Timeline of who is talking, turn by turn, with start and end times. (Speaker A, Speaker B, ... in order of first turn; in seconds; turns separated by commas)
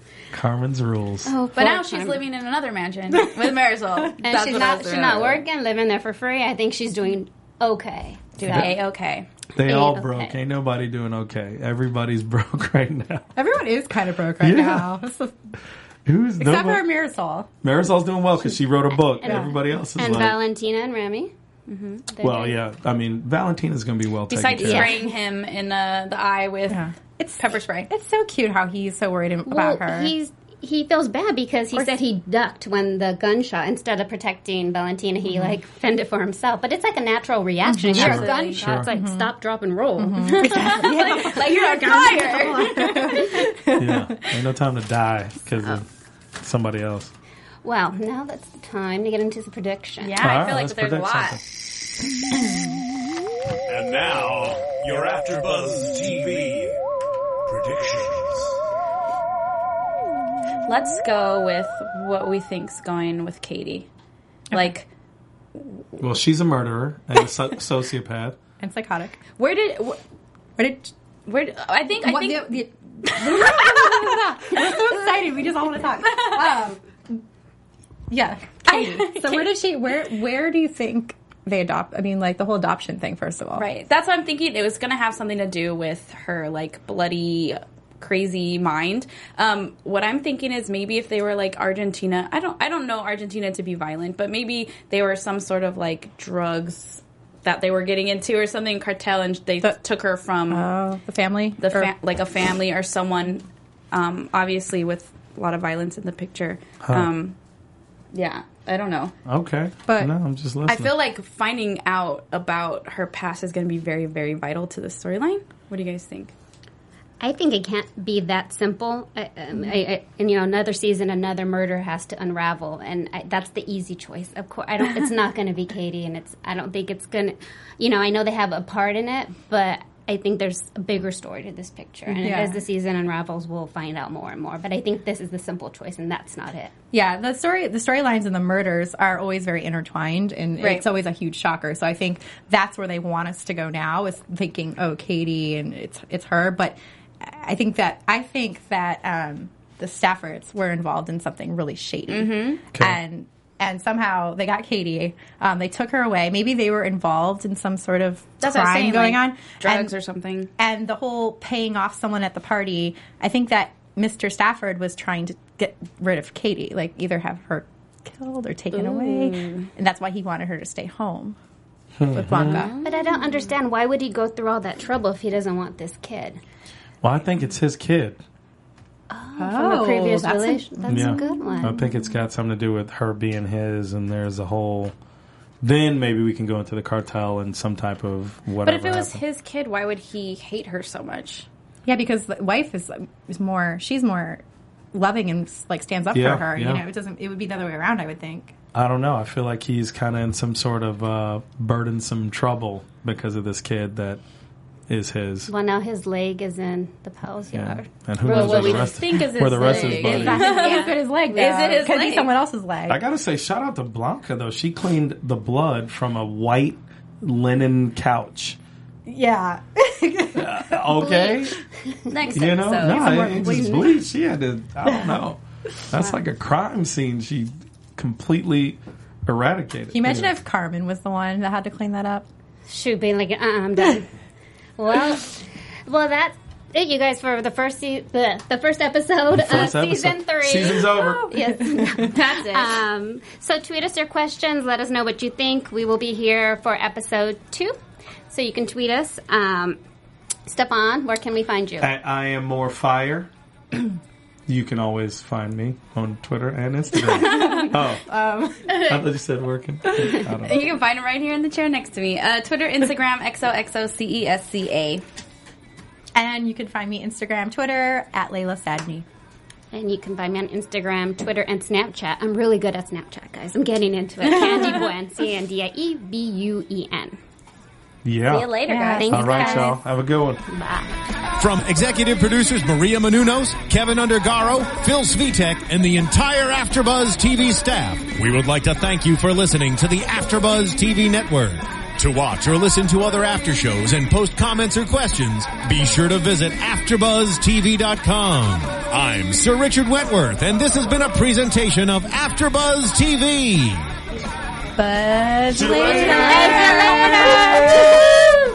Speaker A: 0.3-1.3, Speaker B: 1.2-2.2, Speaker C: 1.5-5.4, Speaker D: 3.1-5.2, Speaker B: 4.2-8.7, Speaker C: 8.4-9.3, Speaker A: 8.4-8.7, Speaker A: 9.6-13.3, Speaker B: 9.6-10.4, Speaker D: 13.3-15.3, Speaker A: 14.4-14.9, Speaker A: 16.1-16.8, Speaker D: 16.4-17.5, Speaker A: 17.6-20.4, Speaker B: 18.9-21.3, Speaker D: 19.2-19.5, Speaker C: 21.7-22.0, Speaker B: 21.9-22.6, Speaker A: 22.2-24.9, Speaker C: 24.3-26.8, Speaker D: 24.6-25.0, Speaker D: 26.7-30.1, Speaker C: 27.4-27.9, Speaker B: 29.5-42.6, Speaker D: 37.6-39.3, Speaker C: 37.9-38.6, Speaker A: 37.9-38.9, Speaker D: 40.0-44.2, Speaker C: 40.3-43.5, Speaker A: 43.8-45.9, Speaker A: 46.4-47.1, Speaker B: 47.6-50.2, Speaker C: 50.0-51.4, Speaker A: 50.2-51.4, Speaker E: 53.7-56.8, Speaker E: 57.5-58.5, Speaker C: 60.6-63.9, Speaker C: 64.5-64.9, Speaker A: 66.0-68.3, Speaker D: 68.6-69.2, Speaker C: 69.4-70.0, Speaker D: 70.6-70.9, Speaker C: 71.2-74.1, Speaker D: 72.0-77.2, Speaker C: 76.1-76.5, Speaker D: 78.1-83.7, Speaker C: 78.7-79.6, Speaker C: 83.5-100.7, Speaker D: 100.5-101.9, Speaker C: 101.6-107.3, Speaker A: 106.8-107.1, Speaker C: 108.1-109.1, Speaker A: 109.2-110.9, Speaker D: 109.9-110.1, Speaker C: 110.7-116.3, Speaker B: 117.2-136.7, Speaker D: 132.1-132.6, Speaker D: 136.9-159.9, Speaker C: 140.6-140.8, Speaker C: 152.1-152.6, Speaker A: 152.7-153.0, Speaker C: 158.4-160.5, Speaker D: 160.6-171.4, Speaker C: 168.7-169.7, Speaker A: 172.0-172.7, Speaker D: 172.1-172.8, Speaker C: 172.4-172.9, Speaker B: 172.7-176.4, Speaker A: 177.0-178.2, Speaker B: 179.1-181.8, Speaker D: 179.4-181.9, Speaker A: 180.9-184.9, Speaker A: 185.6-189.2, Speaker C: 188.6-191.4, Speaker D: 191.8-198.5, Speaker A: 196.1-196.8, Speaker A: 198.7-204.2, Speaker A: 204.9-205.5, Speaker B: 205.5-208.9, Speaker A: 207.5-210.6, Speaker C: 208.2-212.3, Speaker D: 209.5-213.0, Speaker B: 210.3-211.5, Speaker A: 212.9-218.6, Speaker D: 219.1-221.3, Speaker A: 220.3-221.6, Speaker B: 222.1-223.7, Speaker C: 222.1-223.3, Speaker A: 222.3-230.3, Speaker D: 222.9-223.7, Speaker D: 229.9-232.2, Speaker B: 232.7-234.1, Speaker B: 234.8-247.8, Speaker A: 239.3-241.3, Speaker D: 241.5-242.0, Speaker C: 241.9-242.8, Speaker B: 248.3-249.8, Speaker B: 250.5-251.9, Speaker A: 251.8-253.8, Speaker A: 254.5-258.1, Speaker C: 257.1-257.7, Speaker D: 257.1-258.9, Speaker A: 258.7-260.7, Speaker C: 260.1-265.0, Speaker D: 266.1-269.0, Speaker B: 269.7-277.2, Speaker C: 274.2-274.9, Speaker A: 278.0-280.4, Speaker C: 278.2-279.7, Speaker D: 278.7-279.0, Speaker B: 278.9-279.8, Speaker B: 280.5-280.9, Speaker E: 281.4-303.9, Speaker D: 304.8-308.1, Speaker C: 305.5-307.3, Speaker B: 305.6-308.1